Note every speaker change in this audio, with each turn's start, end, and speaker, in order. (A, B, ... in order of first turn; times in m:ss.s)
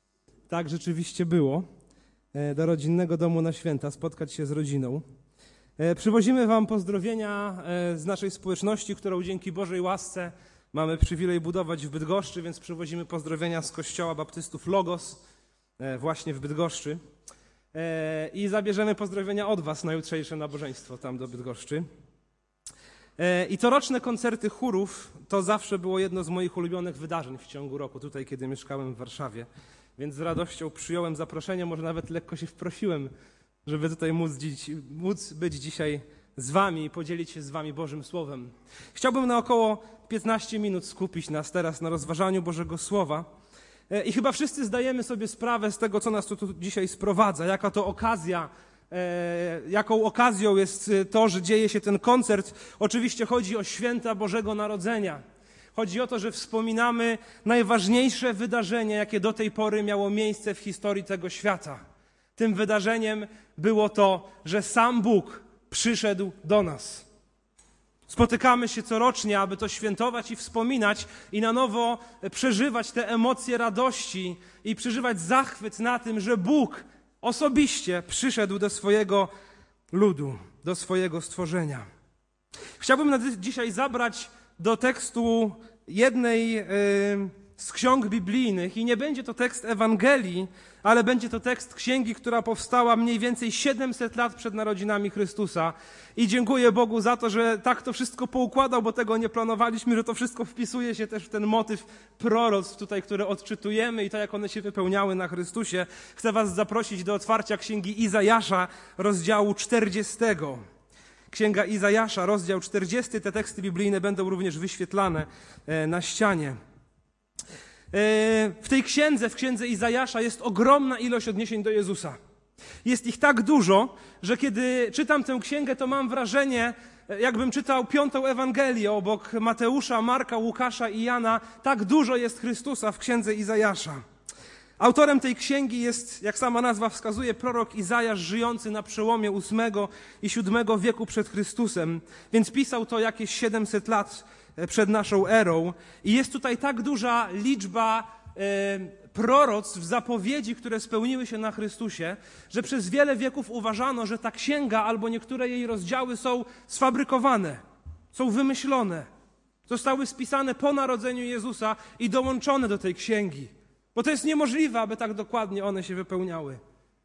0:00.5-0:01.6 A
0:02.3-0:05.0 A
0:05.8-0:15.2 A
0:15.8-0:17.0 A
0:17.7-0:21.9 A
0:23.2-0:33.1 A
0:33.6-0:43.3 A
0:43.9-0:55.2 A
0:55.7-1:01.8 A
1:02.4-1:07.0 A
1:08.1-1:19.3 A
1:19.9-1:21.8 A
1:22.8-1:50.6 A
1:51.3-1:56.6 A
1:57.9-2:02.2 A
2:02.8-2:14.0 A
2:14.8-2:37.6 A
2:38.1-2:39.1 A
2:39.7-2:46.6 A